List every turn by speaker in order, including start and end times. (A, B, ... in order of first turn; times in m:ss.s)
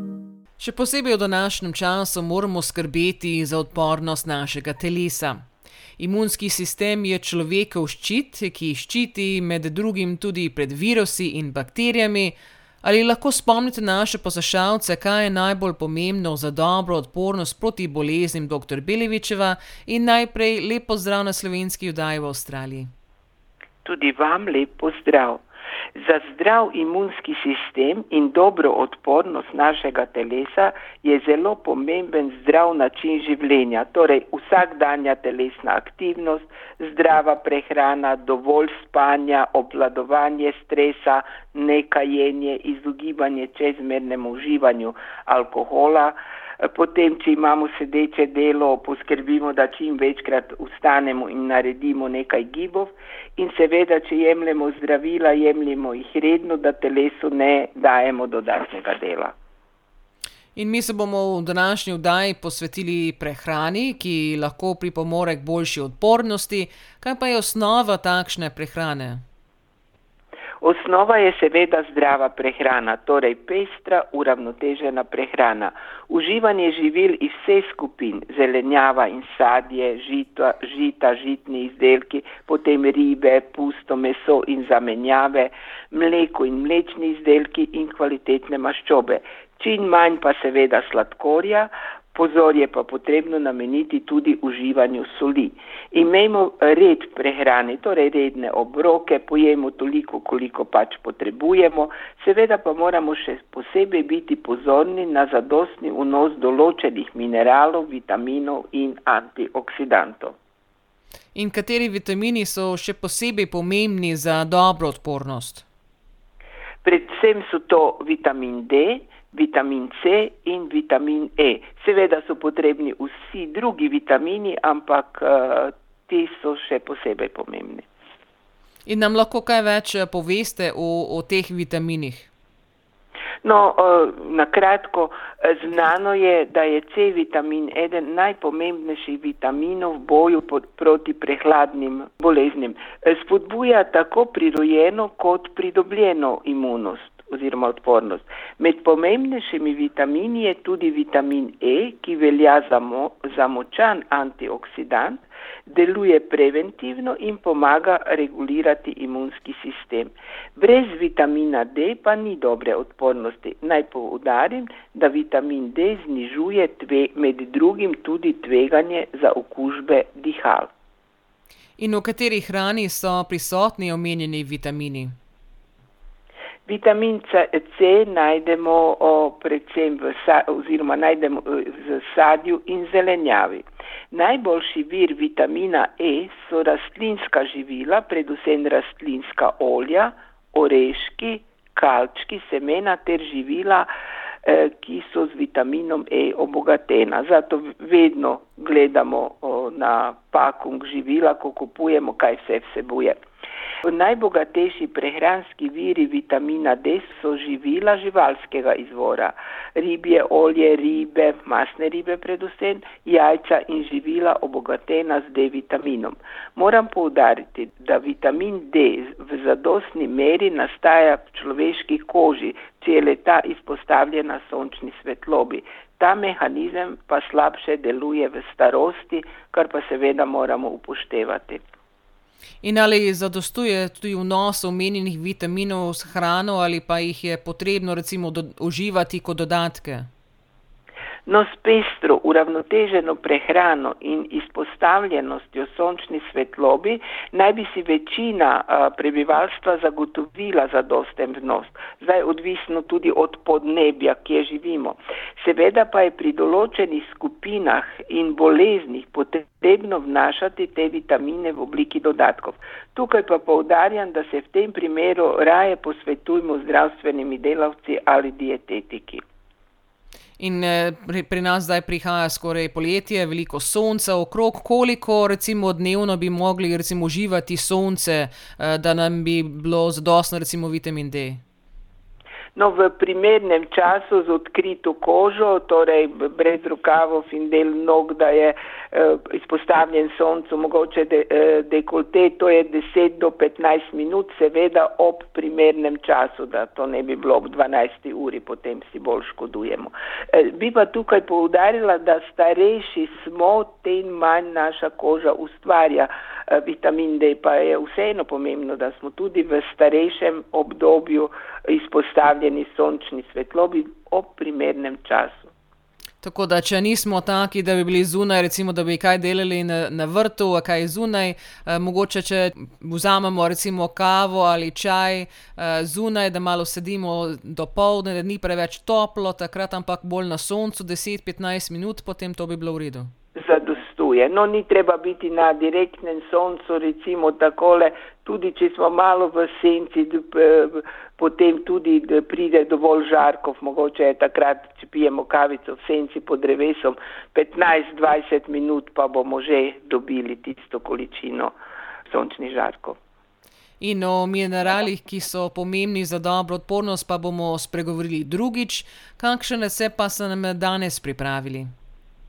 0:00.6-0:05.4 A
0:06.0-0:22.9 A
0:23.8-0:25.4 B
0:26.0-0:59.3 B
1:00.6-1:09.2 A
1:10.6-1:50.4 B
1:51.3-1:55.6 A
1:56.8-2:07.9 B
2:08.8-2:12.3 A
2:13.4-2:50.7 B
2:51.8-2:55.1 A
2:56.7-3:13.9 B
3:14.4-3:23.2 B
3:23.8-3:51.6 B
3:52.6-4:00.0 A
4:01.2-4:29.2 B
4:30.4-4:41.4 A
4:42.6-5:15.5 B
5:16.2-5:33.1 A
5:33.4-5:51.5 B
5:52.1-5:53.0 B
5:53.8-6:01.7 A